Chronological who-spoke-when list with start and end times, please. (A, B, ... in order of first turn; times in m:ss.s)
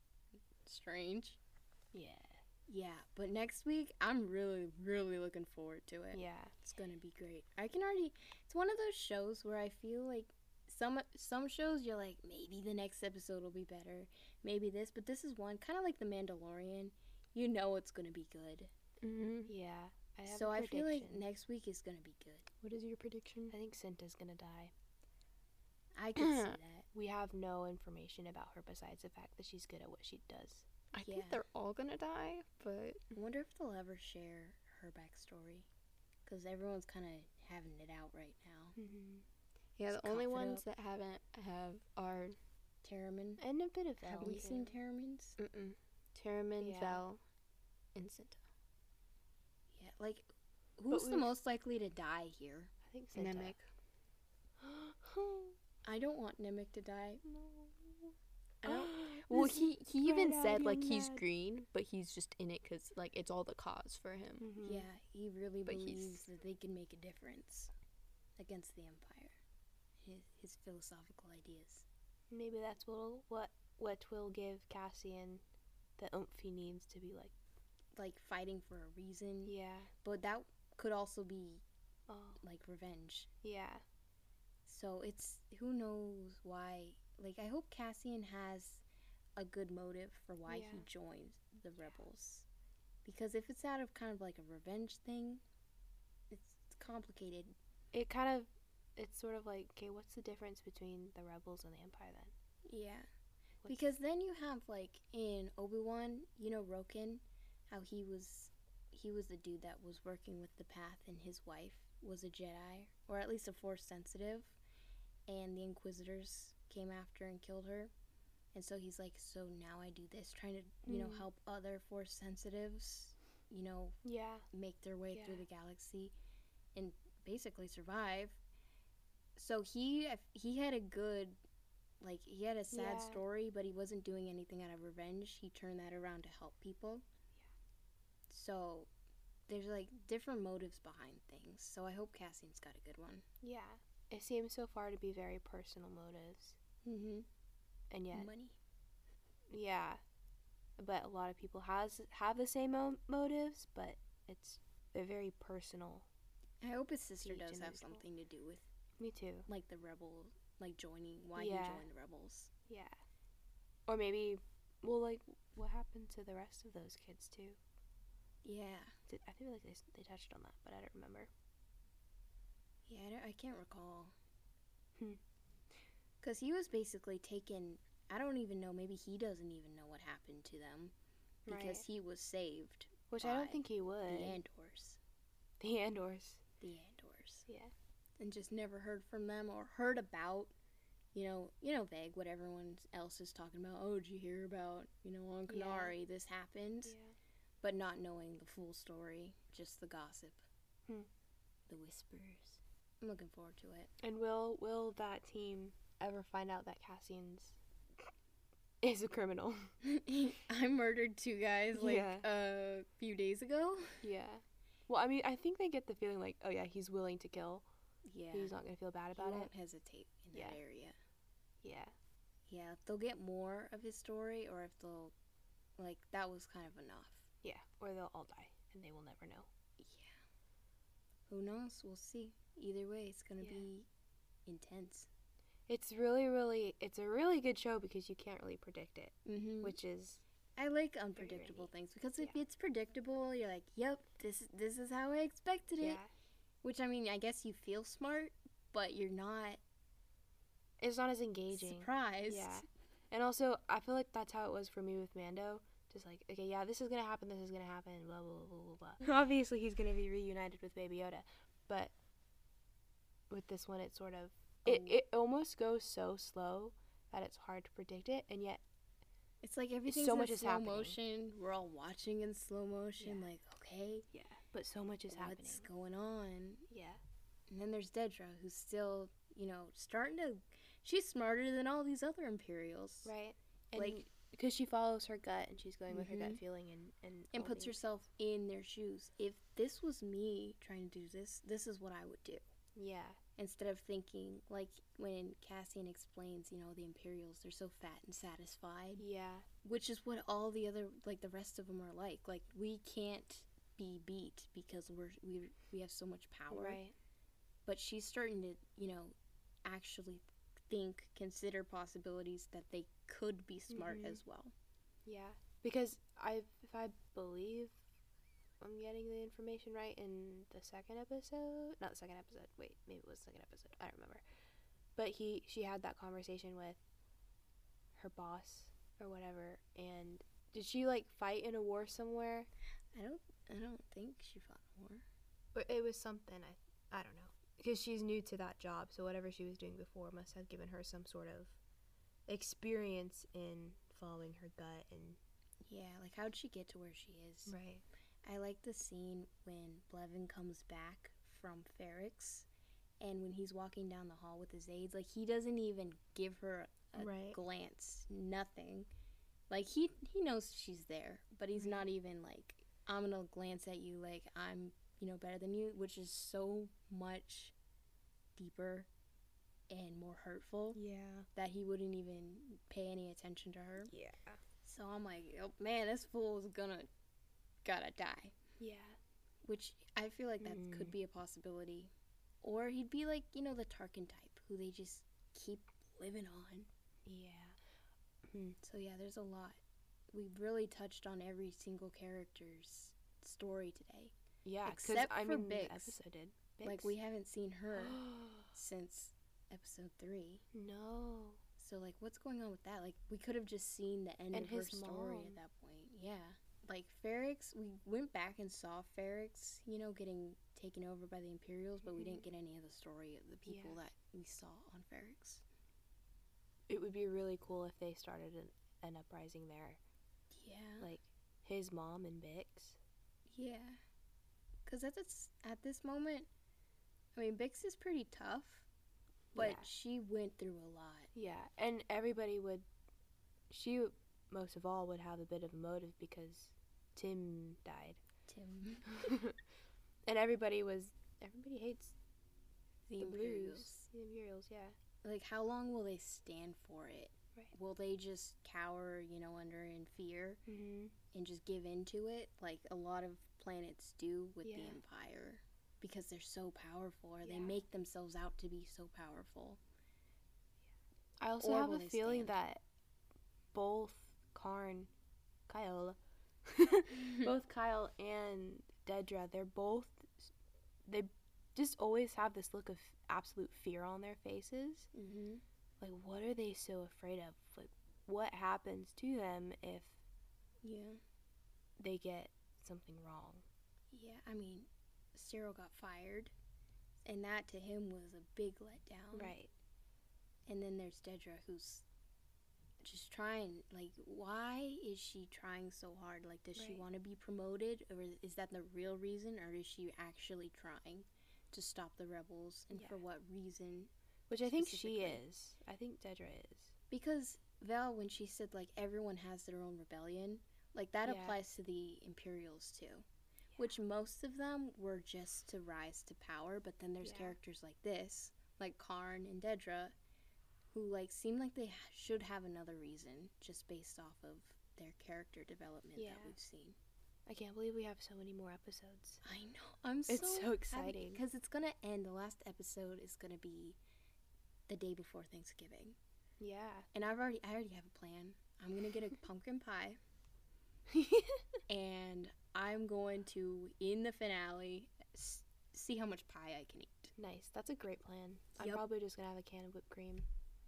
0:00.6-0:01.4 A
0:01.9-0:02.4 B
0:02.7-0:18.7 A
0:06.1-0:06.6 B
0:19.0-0:19.5 C
0:19.5-0:21.2 B
0:20.3-0:22.5 A
0:22.6-0:23.5 C
0:23.5-0:24.7 B
0:26.0-0:26.8 A
0:26.2-0:26.6 C
0:26.9-0:30.7 B
0:30.9-0:33.0 C
0:31.0-0:31.4 A
0:33.1-0:35.7 A
0:36.2-0:38.8 A
0:38.8-0:39.2 B
0:39.8-0:42.4 C
0:39.9-0:40.6 A
0:42.8-0:43.4 A
0:43.4-0:44.7 B
0:44.1-0:44.4 C
0:44.1-0:45.4 A
0:45.4-0:47.2 C
0:46.6-0:47.0 B
0:47.9-0:48.4 C
0:49.8-0:53.7 A
0:50.9-0:51.3 B
0:52.8-0:53.6 B
0:54.6-0:55.6 B
0:55.8-0:57.2 A
0:57.2-0:57.9 B
0:58.6-0:58.9 A
0:58.6-1:01.2 B
0:59.2-1:04.5 C
1:04.4-1:04.8 B
1:04.6-1:07.7 A
1:05.7-1:06.2 C
1:08.4-1:09.4 A
1:10.0-1:11.8 A
1:12.3-1:15.4 B
1:16.0-1:17.3 B
1:18.0-1:21.6 A
1:19.4-1:19.9 B
1:22.1-1:22.4 B
1:22.4-1:23.3 A
1:23.4-1:23.8 B
1:24.6-1:28.8 A
1:29.4-1:32.5 A
1:30.5-1:30.8 B
1:33.0-1:35.4 A
1:36.3-1:37.5 A
1:37.9-1:42.3 B
1:42.7-1:43.1 A
1:43.7-1:54.6 A
1:55.3-1:57.9 A
1:58.5-2:04.0 A
2:00.8-2:01.2 B
2:04.0-2:04.4 B
2:04.5-2:06.1 A
2:05.1-2:05.4 B
2:06.7-2:08.4 A
2:09.4-2:11.4 A
2:12.0-2:17.0 A
2:12.7-2:13.2 B
2:18.3-2:18.9 A
2:19.5-2:23.2 A
2:23.4-2:26.6 B
2:26.8-2:27.3 A
2:27.9-2:28.3 B
2:28.1-2:28.6 A
2:29.5-2:30.0 B
2:30.8-2:36.1 B
2:36.6-2:38.7 A
2:37.2-2:38.0 B
2:39.0-2:39.5 B
2:39.5-2:42.5 A
2:41.4-2:41.9 B
2:42.7-2:43.0 B
2:43.9-2:47.6 B
2:48.4-2:48.9 A
2:49.1-2:51.3 B
2:52.8-2:54.1 A
2:56.2-3:00.9 A
3:01.4-3:01.8 B
3:01.5-3:05.0 A
3:03.1-3:04.4 B
3:05.6-3:06.4 B
3:06.6-3:07.5 A
3:07.5-3:07.7 B
3:08.2-3:10.5 A
3:11.1-3:17.0 A
3:15.5-3:15.9 B
3:16.8-3:17.2 B
3:17.6-3:20.4 A
3:21.7-3:23.9 A
3:24.0-3:27.6 B
3:28.8-3:29.7 B
3:29.8-3:34.0 A
3:31.7-3:32.2 B
3:34.0-3:37.7 B
3:38.0-3:38.5 A
3:38.3-3:39.5 B
3:39.1-3:41.0 A
3:40.3-3:40.6 B
3:41.6-3:41.9 B
3:42.5-3:45.1 A
3:45.8-3:47.3 A
3:47.4-3:49.5 B
3:49.8-3:50.2 A
3:51.3-3:53.8 A
3:53.4-3:53.7 B
3:54.4-3:55.1 A
3:55.7-4:00.2 B
3:59.2-3:59.8 A
4:00.6-4:06.0 A
4:01.2-4:02.4 B
4:05.8-4:06.1 B
4:06.6-4:09.6 A
4:10.8-4:21.9 B
4:11.5-4:12.6 A
4:23.3-4:28.6 B
4:24.6-4:25.0 A
4:29.4-4:34.1 A
4:29.9-4:31.0 B
4:33.0-4:33.3 B
4:34.1-4:35.6 B
4:35.1-4:36.6 A
4:36.7-4:37.0 B
4:37.5-4:43.1 A
4:43.0-4:47.8 B
4:43.8-4:44.0 A
4:45.9-4:46.4 A
4:47.3-4:52.4 A
4:52.7-4:53.2 B
4:53.4-4:59.0 A
4:59.0-4:59.4 B
4:59.6-5:06.8 A
5:06.5-5:06.9 B
5:07.6-5:14.5 A
5:13.7-5:14.2 B
5:15.0-5:17.8 B
5:18.6-5:24.2 B
5:25.0-5:26.8 B
5:27.9-5:32.5 B
5:32.9-5:35.0 A
5:35.5-5:41.6 B
5:42.3-5:45.2 B
5:45.6-5:47.5 A
5:47.5-5:47.8 B
5:48.2-5:52.5 A
5:53.0-5:58.9 A
5:57.0-5:57.4 B
5:59.5-6:07.5 A
6:01.5-6:01.9 B
6:08.4-6:08.9 A
6:09.7-6:10.8 A
6:10.7-6:11.2 B
6:11.3-6:13.9 A
6:13.9-6:14.4 B
6:14.6-6:16.9 A
6:17.6-6:18.4 A
6:18.6-6:19.0 B
6:19.4-6:21.9 A
6:20.4-6:20.9 B
6:22.4-6:26.7 A
6:27.0-6:27.6 B
6:28.2-6:28.6 B
6:28.6-6:29.6 A
6:30.1-6:36.0 A
6:34.4-6:36.9 B
6:36.6-6:40.4 A
6:37.7-6:38.5 B
6:40.5-6:41.4 B
6:41.6-6:55.4 A
6:44.3-6:45.4 B
6:51.9-6:52.2 B
6:53.4-6:53.8 B
6:56.7-6:59.8 B
7:00.3-7:00.9 A
7:00.8-7:02.8 B
7:03.3-7:03.8 A
7:04.6-7:06.3 A
7:07.2-7:08.6 A
7:09.3-7:09.7 B
7:09.3-7:11.1 A
7:11.1-7:12.6 B
7:13.5-7:18.0 B
7:18.3-7:18.9 A
7:18.9-7:19.4 B
7:20.0-7:21.9 B
7:22.9-7:23.8 A
7:23.0-7:24.8 B
7:25.0-7:30.4 A
7:30.4-7:30.9 B
7:31.1-7:39.6 A
7:34.4-7:34.8 B
7:37.2-7:37.6 B
7:41.2-7:42.6 B
7:41.4-7:42.4 A
7:43.5-7:44.9 B
7:45.5-7:50.3 B
7:50.8-7:54.9 B
7:54.9-7:55.4 A
7:55.8-8:00.0 B
8:00.6-8:01.0 A
8:01.8-8:03.4 B
8:03.9-8:06.3 A
8:07.0-8:09.3 A
8:09.1-8:09.5 B
8:10.5-8:11.8 A
8:12.8-8:23.9 A
8:16.6-8:16.8 B
8:22.7-8:23.0 B
8:24.3-8:26.7 B
8:24.4-8:25.2 A
8:26.9-8:33.0 A
8:31.0-8:31.4 B
8:33.6-8:39.9 A
8:37.0-8:37.4 B
8:40.7-8:46.8 A
8:46.0-8:46.4 B
8:47.2-8:49.2 B
8:49.2-8:53.8 A
8:50.1-8:51.2 B
8:54.7-8:56.0 A
8:56.4-8:56.9 B
8:56.9-9:00.0 A
9:00.9-9:01.4 B
9:01.7-9:07.1 A
9:07.2-9:10.3 B
9:08.6-9:08.8 A